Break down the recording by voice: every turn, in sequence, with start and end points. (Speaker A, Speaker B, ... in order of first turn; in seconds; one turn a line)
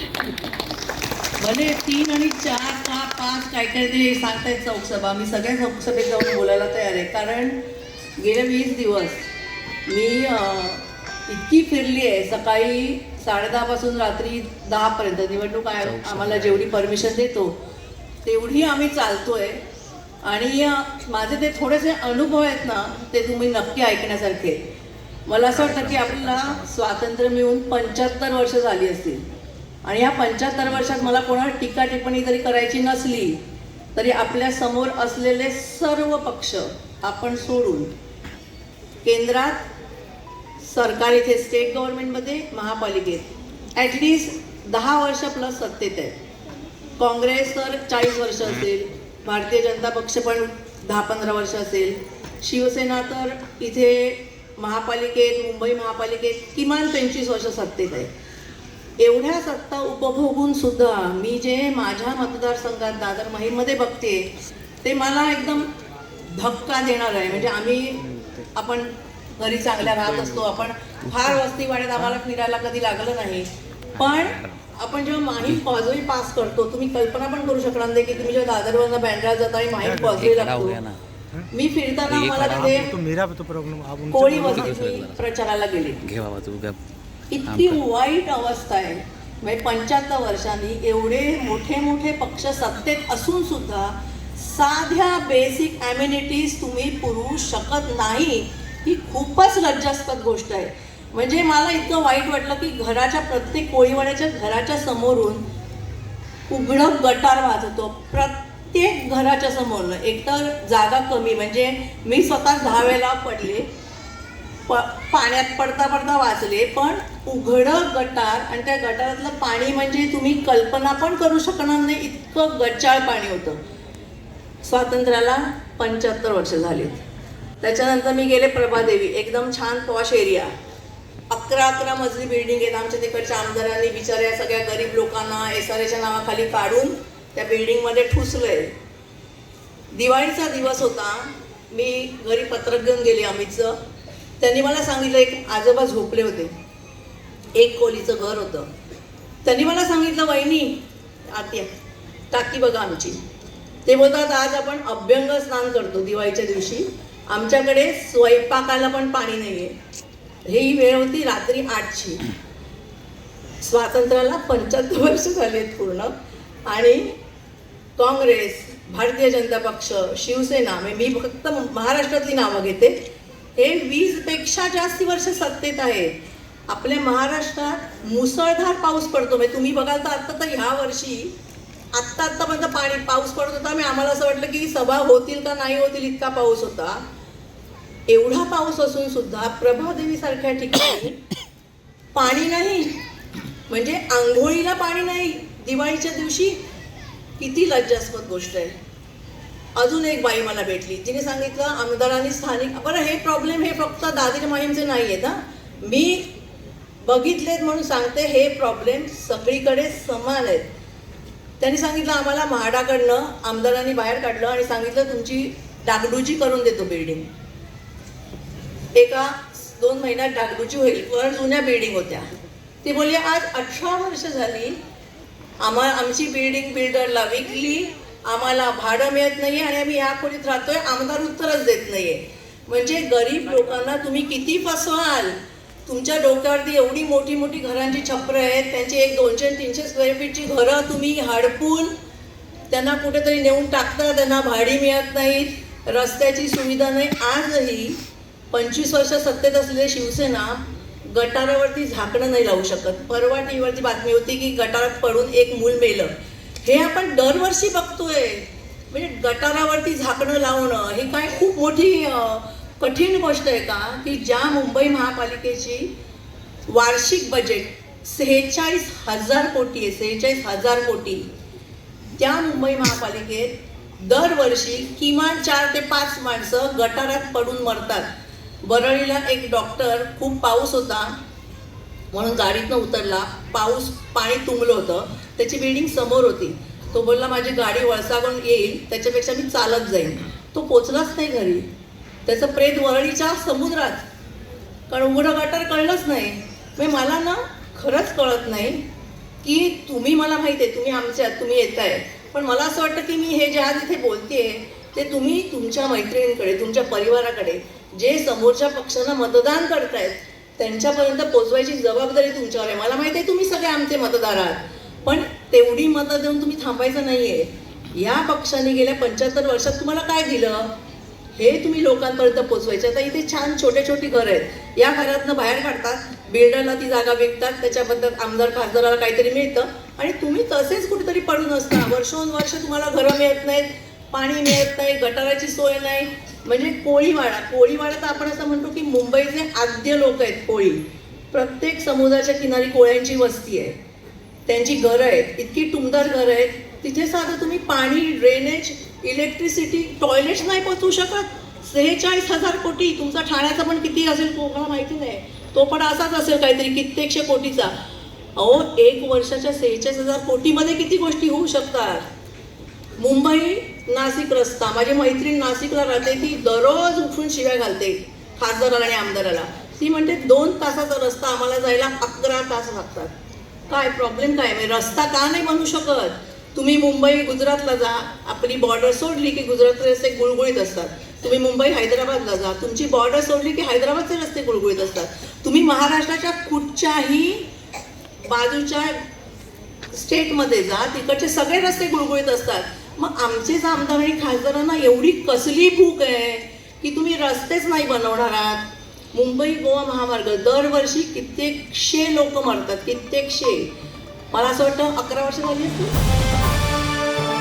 Speaker A: 1.4-7.6
Speaker A: 8.2-9.2
Speaker A: 9.9-17.6
Speaker B: 15.8-16.9
Speaker A: 18.2-19.6
Speaker A: 20.2-24.6
Speaker A: 25.3-29.2
Speaker B: 25.5-26.6
Speaker A: 29.8-33.4
Speaker A: 33.9-37.9
Speaker A: 39.0-39.6
Speaker A: 40.6-46.2
Speaker A: 47.0-58.1
Speaker A: 59.0-64.3
Speaker A: 64.8-65.7
Speaker A: 66.3-68.0
Speaker A: 68.5-80.8
Speaker B: 74.0-74.6
Speaker C: 79.8-80.1
Speaker B: 80.1-81.0
Speaker A: 81.5-82.9
Speaker B: 82.0-82.8
Speaker C: 82.4-84.8
Speaker A: 84.1-86.0
Speaker B: 84.4-85.3
Speaker B: 86.0-86.8
Speaker A: 87.3-105.4
Speaker B: 87.5-87.8
Speaker A: 106.5-113.7
Speaker A: 114.7-123.6
Speaker A: 124.6-127.0
Speaker A: 127.6-130.5
Speaker A: 131.3-138.7
Speaker A: 139.9-143.8
Speaker A: 144.4-146.5
Speaker A: 147.5-148.7
Speaker A: 149.4-151.7
Speaker A: 152.3-153.2
Speaker A: 153.8-159.7
Speaker A: 160.4-162.2
Speaker A: 163.6-166.1
Speaker A: 166.7-167.2
Speaker A: 168.0-173.0
Speaker A: 173.6-176.1
Speaker A: 176.7-181.3
Speaker A: 181.9-187.0
Speaker A: 188.1-191.2
Speaker A: 192.1-192.9
Speaker A: 193.7-196.6
Speaker A: 197.4-198.8
Speaker A: 199.8-206.3
Speaker A: 207.0-210.7
Speaker A: 211.6-217.3
Speaker A: 218.9-222.3
Speaker A: 222.8-224.8
Speaker A: 225.6-241.9
Speaker A: 242.7-248.0
Speaker A: 248.5-265.9
Speaker A: 266.7-271.3
Speaker A: 272.2-278.1
Speaker A: 278.6-281.1
Speaker A: 282.1-291.7
Speaker A: 292.2-294.1
Speaker A: 294.9-298.8
Speaker A: 299.4-320.7
Speaker A: 321.3-343.8
Speaker A: 344.5-357.7
Speaker A: 358.4-362.0
Speaker A: 363.0-373.1
Speaker A: 373.7-387.4
Speaker A: 388.2-389.0
Speaker A: 389.9-403.7
Speaker A: 404.3-405.9